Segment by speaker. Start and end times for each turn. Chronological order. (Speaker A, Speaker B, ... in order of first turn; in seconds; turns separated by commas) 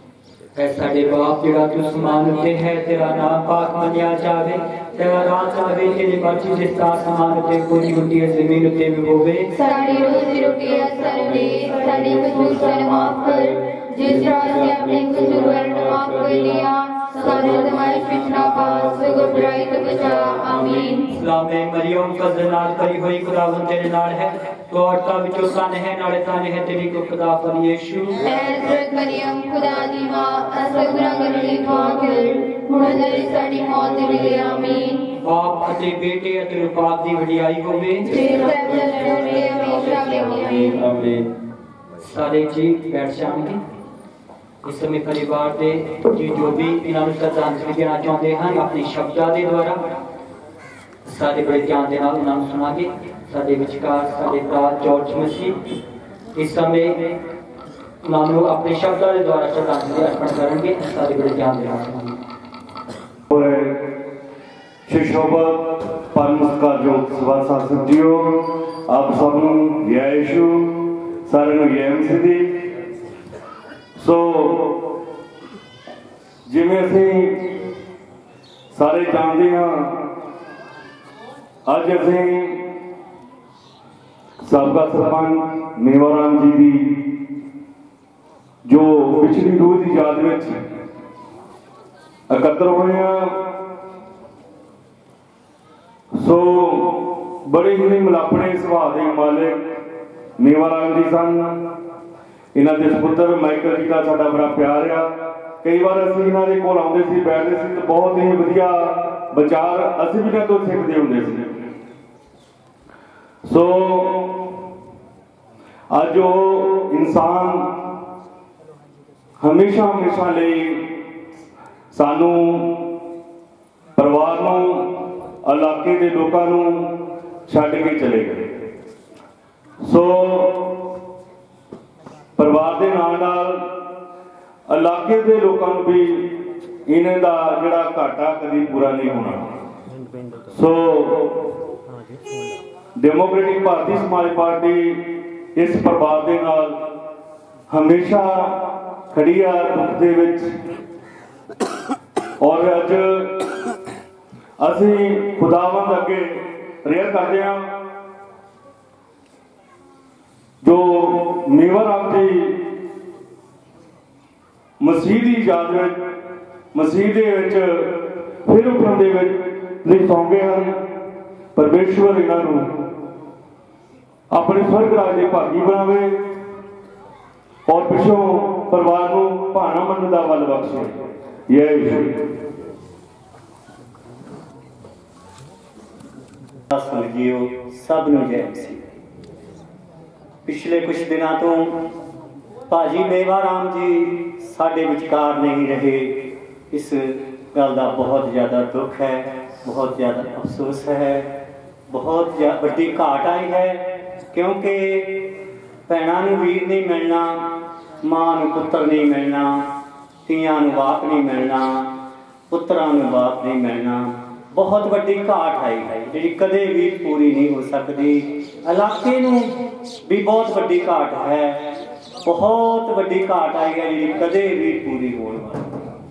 Speaker A: 0.6-9.5, Speaker B: 9.6-21.0, Speaker A: 21.1-28.2, Speaker B: 28.2-35.0, Speaker A: 35.2-38.3, Speaker B: 38.1-40.8, Speaker A: 42.0-43.6, Speaker A: 44.6-49.8, Speaker A: 51.1-55.5, Speaker A: 56.4-57.1, Speaker A: 58.0-62.2, Speaker C: 63.3-63.9, Speaker C: 64.9-72.6, Speaker C: 74.0-74.8, Speaker C: 76.5-77.5, Speaker C: 78.7-80.0, Speaker C: 81.7-82.6, Speaker C: 84.4-87.0, Speaker C: 88.7-90.6, Speaker C: 92.3-93.4, Speaker C: 96.2-99.6, Speaker C: 100.4-101.6, Speaker C: 102.5-105.1, Speaker C: 105.6-111.6, Speaker C: 113.5-114.4, Speaker C: 115.9-117.7, Speaker C: 119.4-120.9, Speaker C: 121.9-122.8, Speaker C: 124.0-124.9, Speaker C: 125.5-126.9, Speaker C: 127.5-128.6, Speaker C: 129.8-130.7, Speaker C: 132.4-133.7, Speaker C: 134.7-139.6, Speaker C: 140.5-141.5, Speaker C: 143.0-146.8, Speaker C: 147.7-150.5, Speaker C: 152.4-153.4, Speaker C: 154.6-157.7, Speaker C: 160.6-162.6, Speaker C: 164.8-166.0, Speaker C: 166.7-170.7, Speaker C: 171.6-172.7, Speaker C: 174.3-176.2, Speaker C: 177.7-180.9, Speaker C: 181.5-182.3, Speaker D: 186.7-189.0, Speaker D: 190.5-191.7, Speaker D: 192.7-201.3, Speaker D: 201.9-205.3, Speaker D: 205.9-207.5, Speaker D: 208.0-209.6, Speaker D: 210.3-211.9, Speaker D: 212.5-225.9